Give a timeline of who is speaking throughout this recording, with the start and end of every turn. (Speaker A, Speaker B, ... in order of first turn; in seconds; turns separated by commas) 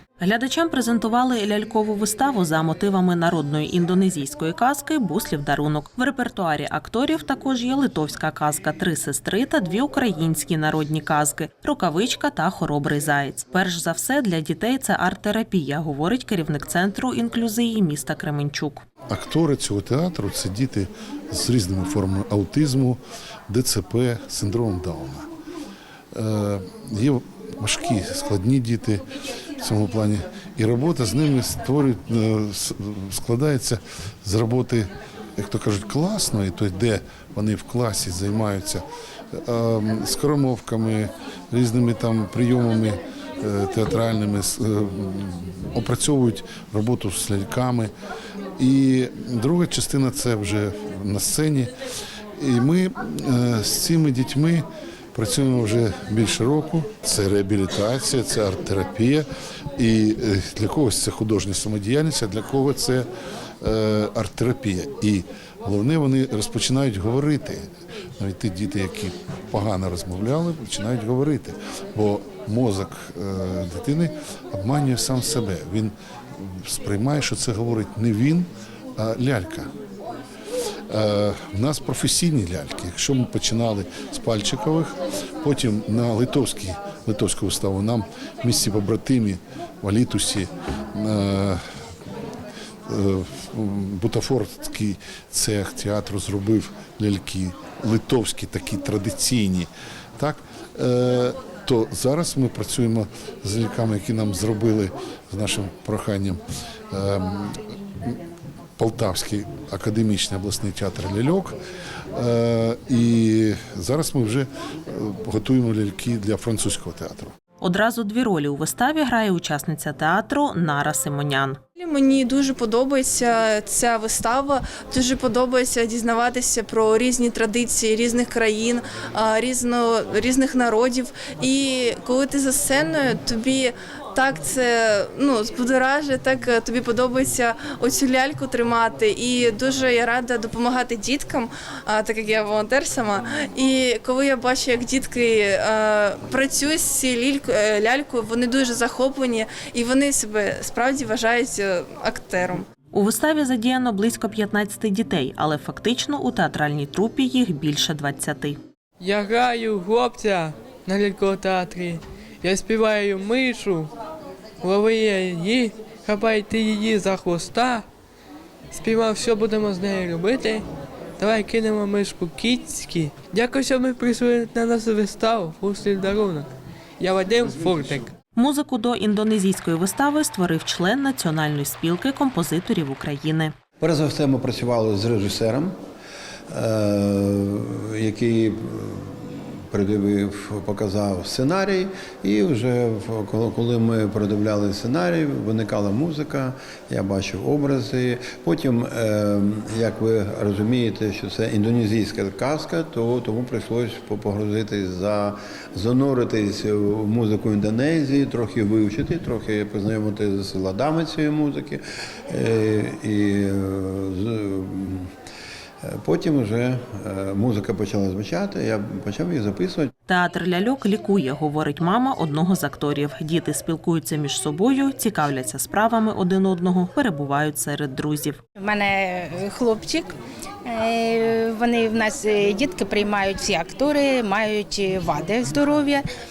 Speaker A: 0.2-18.8, Speaker B: 19.1-25.3, Speaker B: 26.1-29.0, Speaker B: 29.6-47.9, Speaker B: 48.6-51.7, Speaker B: 52.4-63.1, Speaker B: 63.6-67.7, Speaker B: 68.2-79.7, Speaker B: 80.9-91.6, Speaker B: 92.9-108.2, Speaker B: 108.8-111.6, Speaker B: 112.1-117.3, Speaker A: 117.6-121.6, Speaker C: 121.8-152.6, Speaker A: 152.9-158.6, Speaker D: 159.0-163.9, Speaker D: 164.6-167.9, Speaker D: 168.7-170.6, Speaker D: 171.2-178.1, Speaker A: 178.3-183.5, Speaker E: 183.8-185.8, Speaker E: 186.5-215.1, Speaker E: 215.8-219.9, Speaker A: 220.1-228.4, Speaker F: 228.6-230.1, Speaker F: 230.7-236.0